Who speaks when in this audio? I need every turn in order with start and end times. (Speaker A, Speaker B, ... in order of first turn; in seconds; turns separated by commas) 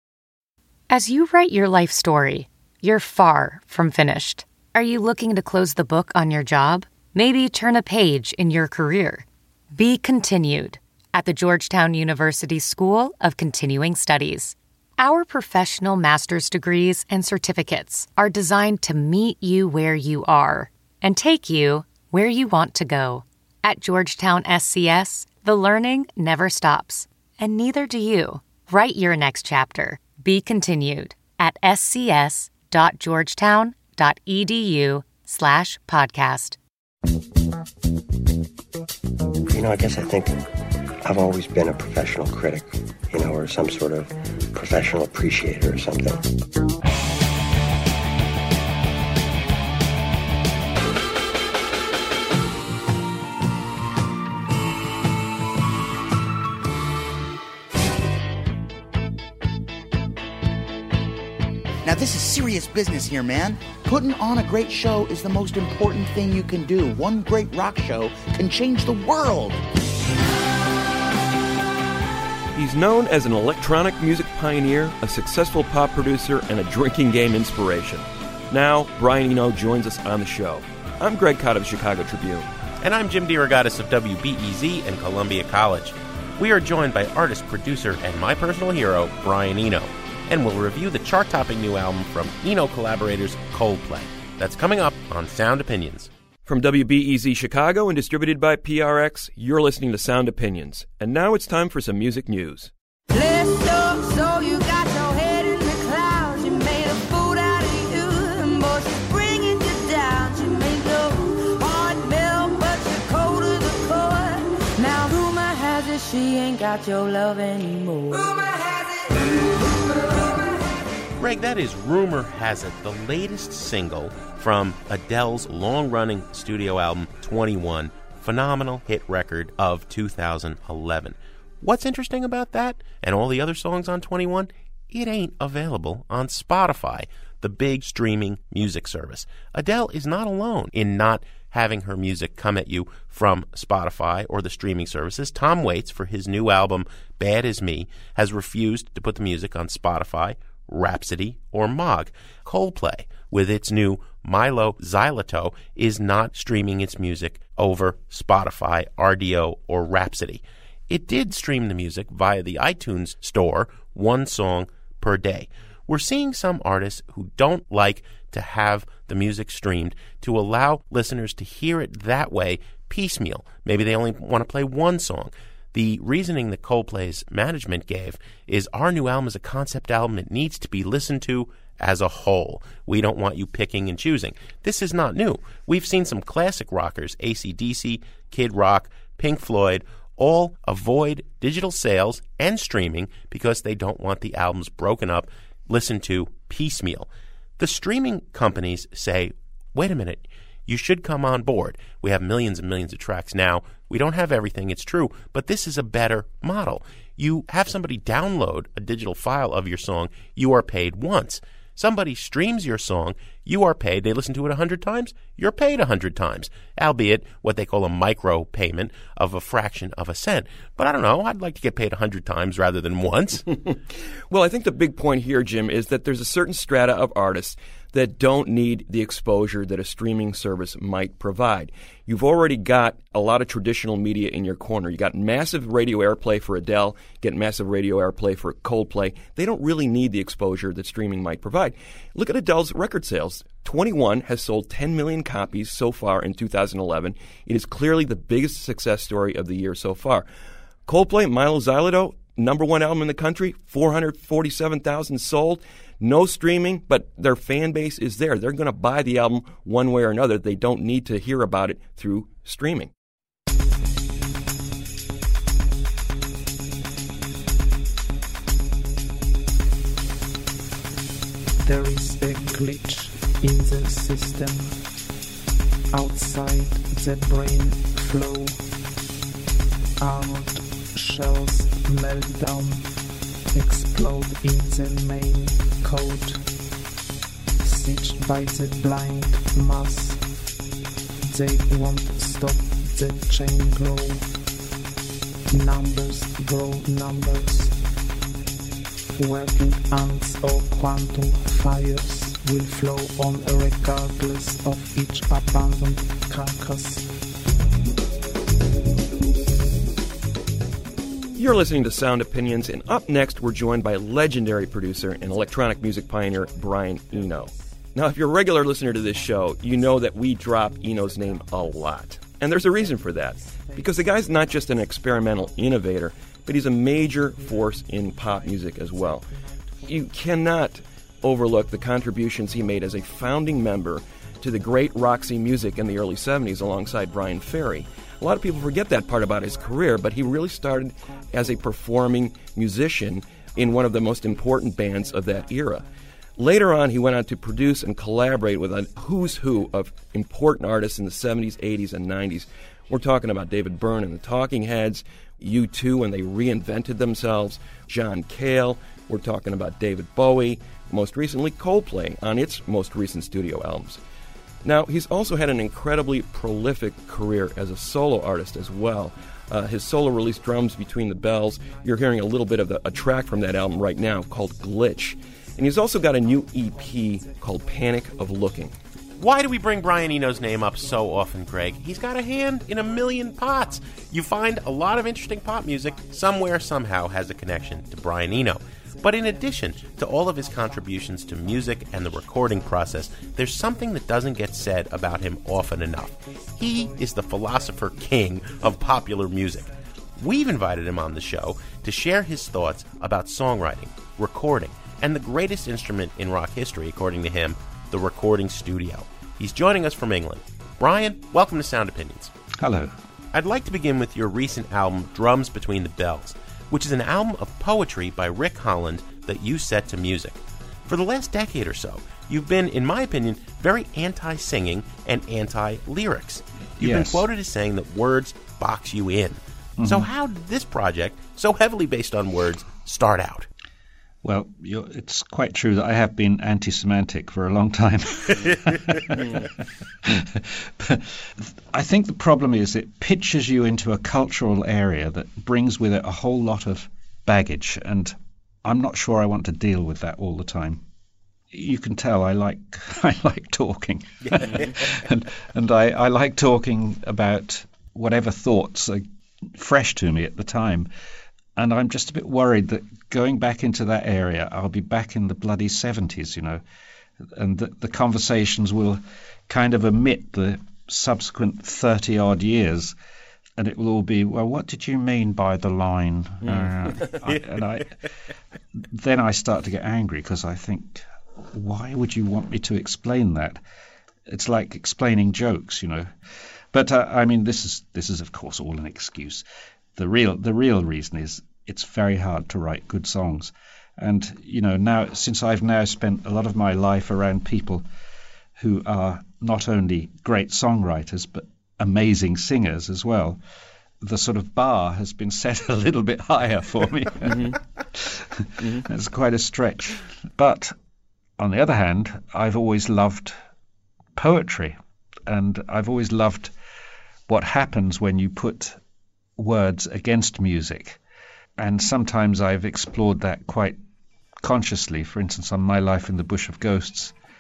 Speaker A: 0.9-36.6, Speaker B: 39.5-40.4, Speaker B: 41.0-46.3, Speaker C: 61.8-69.6, Speaker D: 72.5-82.5, Speaker E: 82.8-96.1, Speaker D: 96.5-102.7, Speaker F: 103.1-118.8, Speaker E: 121.2-223.5, Speaker D: 224.3-250.3, Speaker D: 250.9-262.9, Speaker G: 271.6-274.8, Speaker G: 275.9-278.7, Speaker G: 280.0-282.9, Speaker G: 283.5-286.4, Speaker G: 287.6-290.2, Speaker G: 291.2-294.3, Speaker G: 295.5-297.8, Speaker G: 299.1-307.1, Speaker D: 311.3-329.2, Speaker D: 329.8-345.8, Speaker D: 346.4-364.0, Speaker D: 364.6-378.8, Speaker E: 379.2-412.3, Speaker H: 412.6-412.9, Speaker E: 413.3-433.5, Speaker H: 426.8-427.2, Speaker H: 429.8-430.1, Speaker H: 434.2-439.5, Speaker H: 440.0-450.8, Speaker H: 451.5-460.9, Speaker H: 461.6-466.6, Speaker H: 467.2-472.9, Speaker H: 473.6-477.9, Speaker D: 476.4-477.1, Speaker H: 478.8-483.6, Speaker H: 484.2-486.1, Speaker H: 486.7-489.4, Speaker H: 489.9-497.9, Speaker H: 498.6-503.4, Speaker H: 504.0-510.7, Speaker D: 507.2-507.6, Speaker D: 508.6-508.8, Speaker H: 511.4-513.4, Speaker H: 514.2-516.5, Speaker H: 517.3-518.8, Speaker H: 519.4-521.0, Speaker H: 521.6-523.8, Speaker H: 524.4-527.1